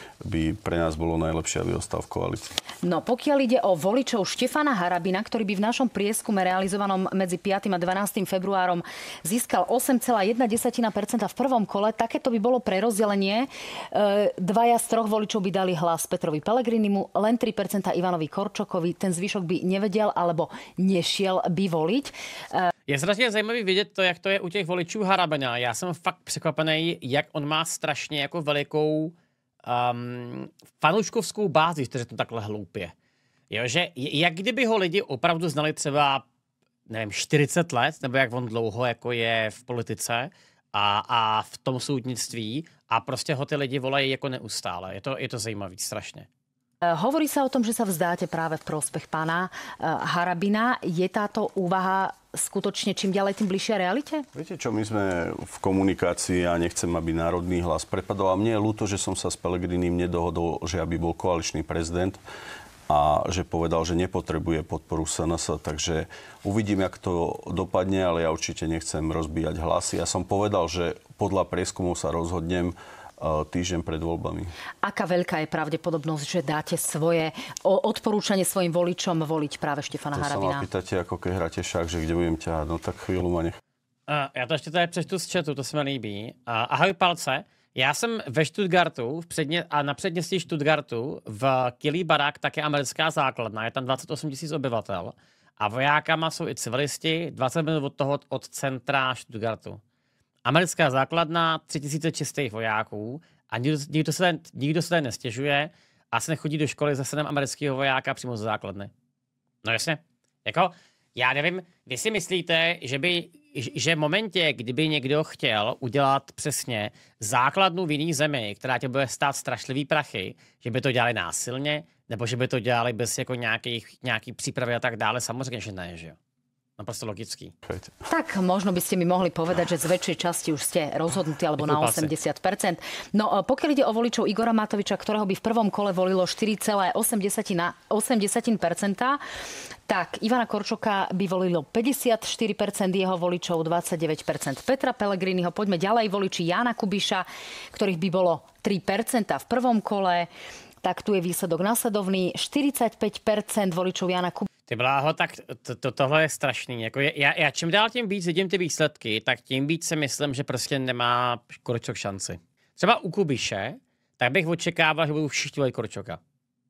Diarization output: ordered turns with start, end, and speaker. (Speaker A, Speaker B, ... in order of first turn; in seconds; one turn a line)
Speaker A: 0.2-2.5
Speaker B: 2.8-22.7
Speaker C: 22.9-29.1
Speaker C: 29.6-32.9
Speaker C: 33.5-36.2
Speaker C: 36.9-46.3
Speaker B: 46.8-54.3
Speaker A: 54.3-62.2
Speaker A: 62.9-74.5
Speaker B: 74.8-80.7
Speaker A: 80.1-83.6
Speaker C: 84.1-99.8
Speaker C: 100.4-108.9
Speaker C: 109.6-126.2
Speaker C: 126.8-127.5
Speaker A: 127.7-127.9
Speaker B: 128.1-139.2
Speaker C: 131.6-132.1
Speaker B: 139.9-150.3
Speaker B: 150.8-154.5
Speaker C: 154.7-166.2